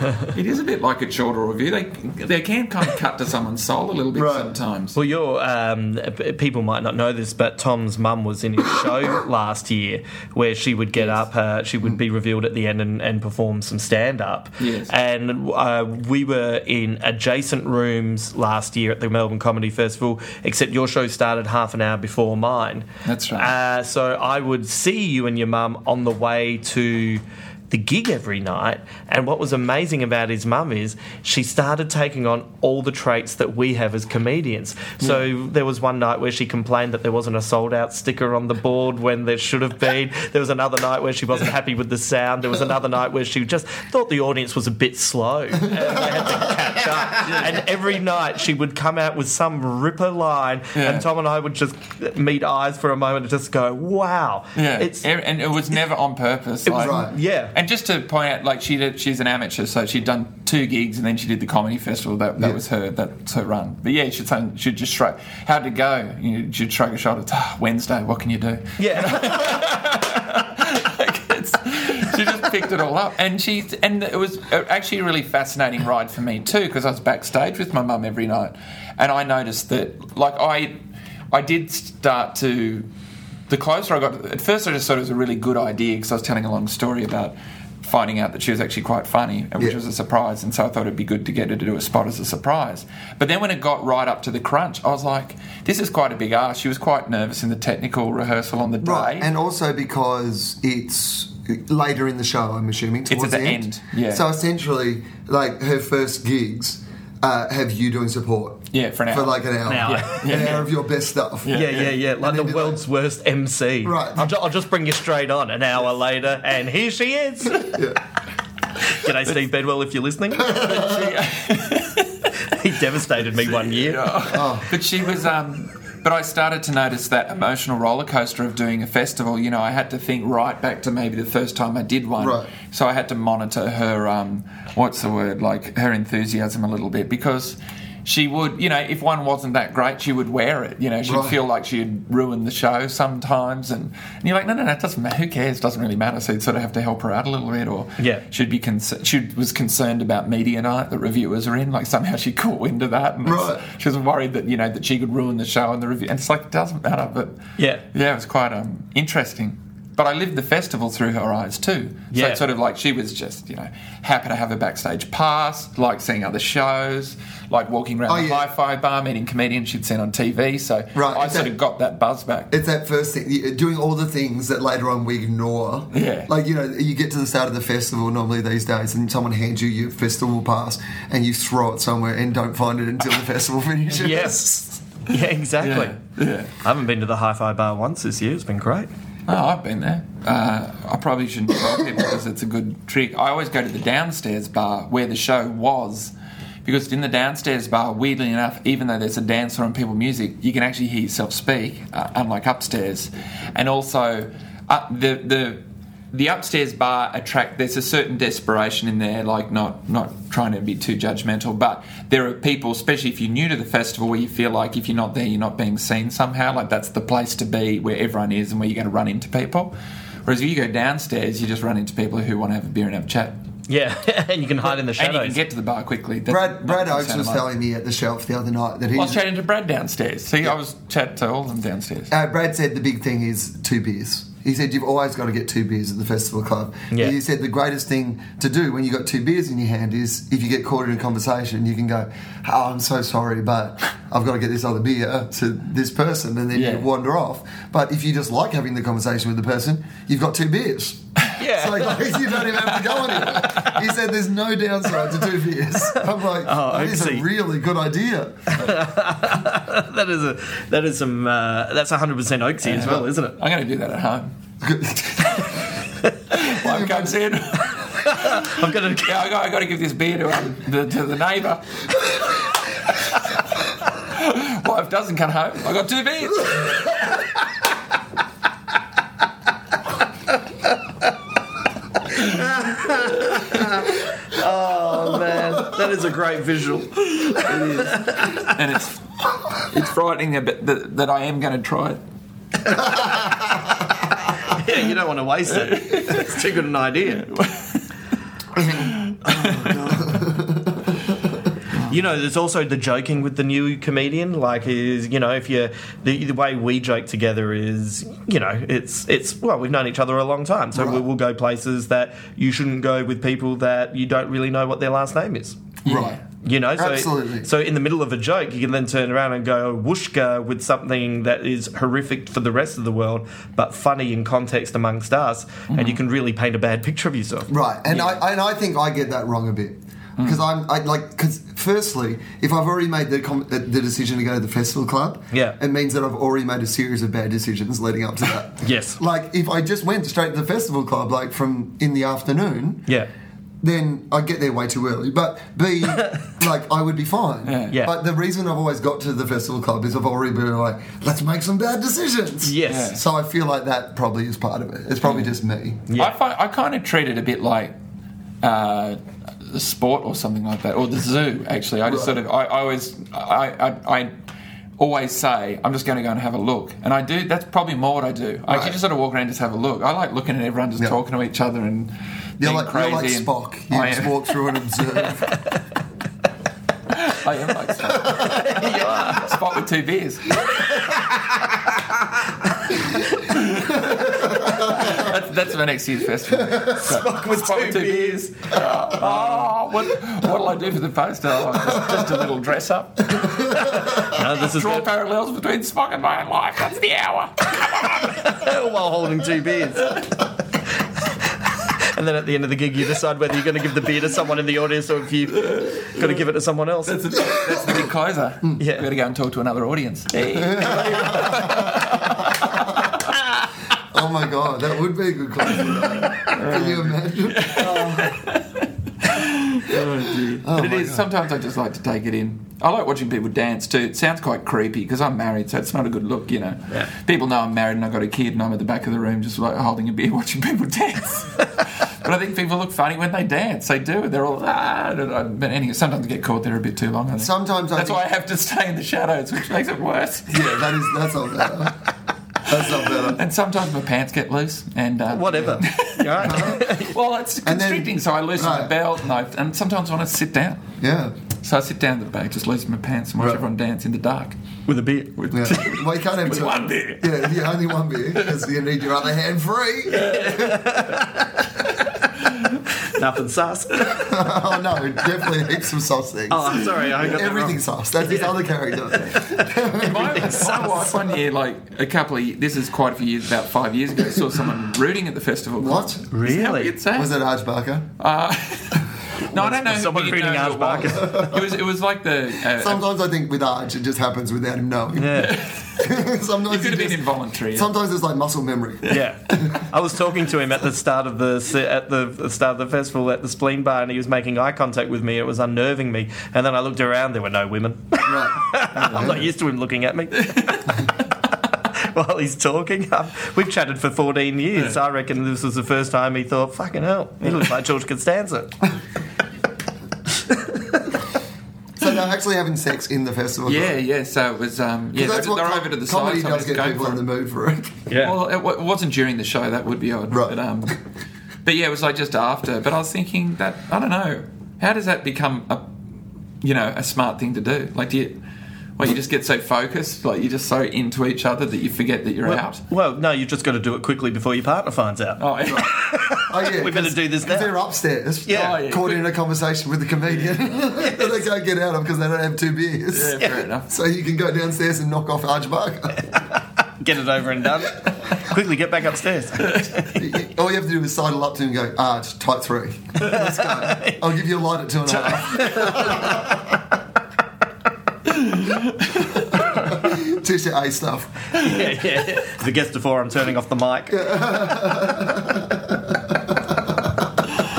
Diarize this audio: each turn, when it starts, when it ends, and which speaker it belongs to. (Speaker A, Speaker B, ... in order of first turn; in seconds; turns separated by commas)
Speaker A: 0.3-5.0, Speaker B: 4.1-4.5, Speaker C: 5.0-55.0, Speaker A: 14.6-14.9, Speaker A: 23.1-23.5, Speaker A: 45.7-46.4, Speaker A: 47.1-47.6, Speaker A: 50.8-51.1, Speaker A: 54.6-80.8, Speaker C: 56.6-57.5, Speaker B: 56.8-57.1, Speaker C: 68.8-69.6, Speaker A: 81.3-82.9, Speaker A: 83.5-99.3, Speaker B: 98.8-111.6, Speaker A: 103.1-104.2, Speaker A: 108.7-110.7, Speaker C: 109.7-110.6, Speaker A: 111.5-112.0, Speaker C: 111.5-117.7, Speaker B: 112.2-112.8, Speaker B: 113.8-114.4, Speaker B: 117.5-118.0, Speaker C: 118.9-120.7, Speaker B: 120.4-121.0, Speaker A: 120.5-122.2, Speaker C: 122.4-124.2, Speaker A: 123.4-157.4, Speaker B: 124.3-124.7, Speaker B: 132.2-132.5, Speaker B: 141.1-141.4, Speaker C: 148.0-148.2, Speaker B: 153.2-153.6, Speaker C: 157.6-157.8, Speaker A: 157.9-172.5, Speaker C: 162.1-162.4, Speaker B: 168.1-168.5, Speaker B: 170.9-171.5, Speaker B: 172.5-184.5, Speaker A: 175.9-176.3, Speaker C: 183.9-186.0, Speaker A: 185.6-186.5, Speaker C: 186.6-188.9, Speaker A: 189.3-196.1, Speaker A: 196.7-219.7, Speaker A: 220.3-223.4, Speaker C: 223.7-225.4, Speaker A: 224.7-227.4, Speaker B: 226.3-229.2, Speaker A: 228.9-232.1, Speaker B: 232.1-258.7, Speaker C: 236.9-237.2, Speaker A: 246.5-246.9, Speaker C: 251.4-252.1, Speaker C: 256.4-257.3, Speaker C: 258.5-263.4, Speaker A: 262.6-264.3, Speaker B: 264.6-265.6, Speaker A: 266.3-272.3, Speaker B: 266.6-267.1, Speaker C: 268.0-269.2, Speaker A: 272.9-273.2, Speaker A: 274.0-277.1, Speaker C: 282.3-288.6, Speaker A: 287.2-292.0, Speaker C: 294.4-297.3, Speaker A: 295.5-296.4, Speaker A: 297.2-297.8, Speaker B: 298.6-301.5, Speaker A: 298.7-300.1, Speaker C: 301.9-315.6, Speaker B: 310.8-311.0, Speaker A: 315.9-316.2, Speaker B: 315.9-316.2, Speaker C: 316.4-328.2, Speaker B: 316.8-317.5, Speaker A: 325.7-326.0, Speaker B: 327.5-342.9, Speaker C: 335.3-335.6, Speaker C: 338.6-339.0, Speaker B: 343.6-355.9, Speaker A: 347.5-347.8, Speaker C: 352.4-353.0, Speaker A: 352.6-353.0, Speaker A: 355.0-355.3, Speaker C: 355.9-356.2, Speaker A: 356.0-357.7, Speaker A: 358.4-364.1, Speaker B: 361.9-362.1, Speaker A: 364.8-374.6, Speaker B: 368.5-368.7, Speaker B: 372.4-375.4, Speaker A: 376.9-380.5, Speaker B: 377.9-378.5, Speaker C: 378.2-379.3, Speaker B: 380.5-381.4, Speaker A: 383.2-398.3, Speaker B: 383.6-385.0, Speaker B: 386.4-387.8, Speaker C: 387.6-388.1, Speaker C: 389.0-389.5, Speaker B: 393.1-393.8, Speaker C: 393.7-394.9, Speaker C: 397.9-400.1, Speaker C: 401.5-407.1, Speaker A: 405.3-406.2, Speaker A: 406.9-413.0, Speaker B: 407.1-407.9, Speaker C: 408.6-408.9, Speaker B: 410.3-412.9, Speaker B: 413.8-418.2, Speaker A: 415.6-440.8, Speaker B: 419.7-421.1, Speaker B: 437.2-438.1, Speaker B: 440.3-441.9, Speaker B: 442.4-443.2, Speaker A: 443.0-450.7, Speaker C: 445.1-446.9, Speaker B: 446.2-446.7, Speaker B: 447.4-448.7, Speaker B: 450.8-451.1, Speaker A: 451.4-454.4, Speaker C: 454.7-455.2, Speaker A: 455.2-457.3, Speaker B: 455.3-460.6, Speaker A: 459.9-460.4, Speaker C: 460.1-461.4, Speaker C: 462.8-464.1, Speaker B: 463.9-470.5, Speaker C: 466.3-471.1, Speaker A: 469.8-477.1, Speaker B: 475.6-476.0, Speaker C: 476.1-476.8, Speaker B: 476.9-477.9, Speaker A: 478.0-482.9, Speaker C: 479.3-481.4, Speaker B: 482.5-489.5, Speaker C: 485.0-485.4, Speaker A: 485.1-487.7, Speaker C: 488.9-500.9, Speaker B: 498.1-499.1, Speaker A: 498.9-499.2, Speaker A: 500.2-500.6, Speaker C: 501.7-508.7, Speaker B: 511.8-513.8, Speaker A: 513.5-517.0, Speaker B: 515.0-517.8, Speaker C: 517.9-518.2, Speaker A: 518.0-520.8, Speaker B: 520.1-520.4, Speaker A: 521.5-525.7, Speaker A: 526.4-528.2, Speaker A: 528.8-532.6, Speaker C: 532.2-537.6, Speaker A: 535.2-535.8, Speaker B: 536.3-546.2, Speaker C: 538.3-538.6, Speaker A: 538.3-539.1, Speaker C: 540.8-541.2, Speaker A: 542.9-543.7, Speaker C: 546.8-550.0, Speaker B: 549.9-556.4, Speaker C: 553.0-554.0, Speaker C: 555.2-556.5, Speaker A: 558.2-558.6, Speaker B: 559.7-561.4, Speaker C: 561.4-564.4, Speaker B: 563.9-566.8